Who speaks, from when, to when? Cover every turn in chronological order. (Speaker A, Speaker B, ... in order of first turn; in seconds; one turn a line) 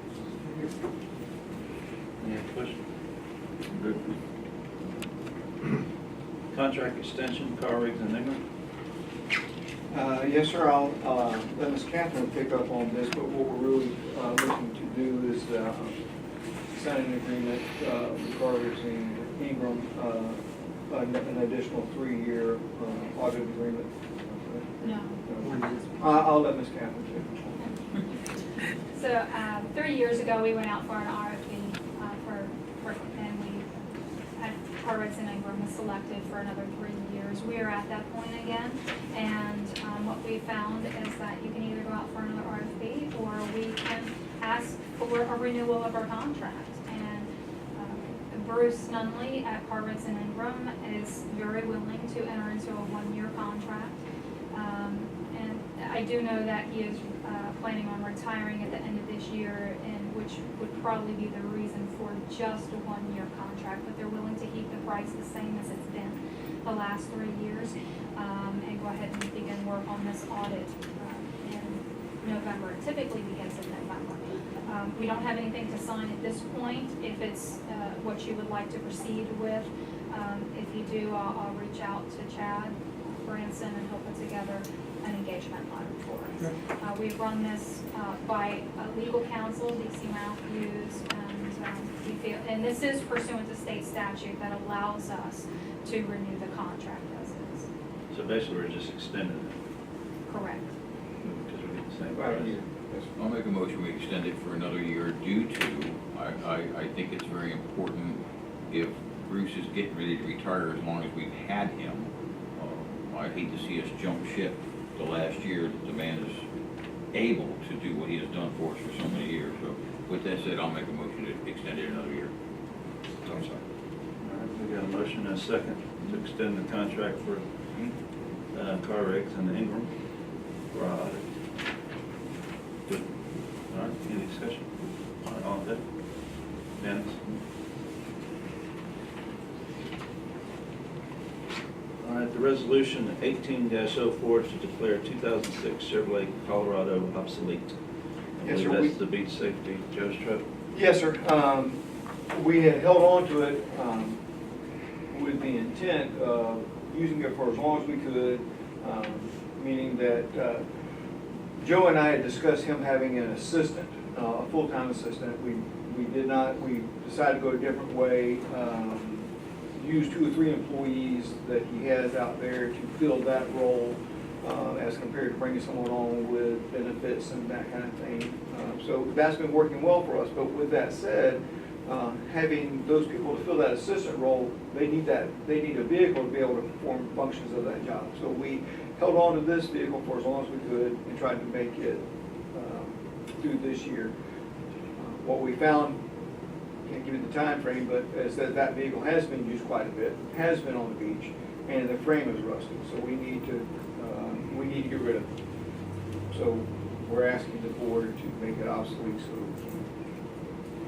Speaker A: 2.2-2.8
Speaker A: 6.5-8.4
Speaker B: 9.9-16.0
Speaker B: 16.7-27.4
Speaker C: 24.8-25.2
Speaker C: 28.9-33.6
Speaker C: 34.4-54.0
Speaker C: 54.5-97.7
Speaker A: 98.1-99.5
Speaker C: 100.3-100.7
Speaker A: 101.2-102.5
Speaker B: 102.1-103.1
Speaker D: 103.2-108.2
Speaker D: 108.7-116.4
Speaker D: 117.1-122.3
Speaker A: 124.2-127.4
Speaker A: 128.5-129.9
Speaker A: 130.7-131.2
Speaker A: 133.7-134.6
Speaker A: 135.2-135.8
Speaker A: 136.8-137.2
Speaker A: 142.0-147.7
Speaker A: 148.4-150.4
Speaker B: 148.4-148.9
Speaker B: 150.7-151.8
Speaker B: 152.3-154.2
Speaker B: 155.1-160.6
Speaker B: 161.6-194.1
Speaker B: 195.0-196.0
Speaker B: 196.8-205.3
Speaker B: 206.3-209.8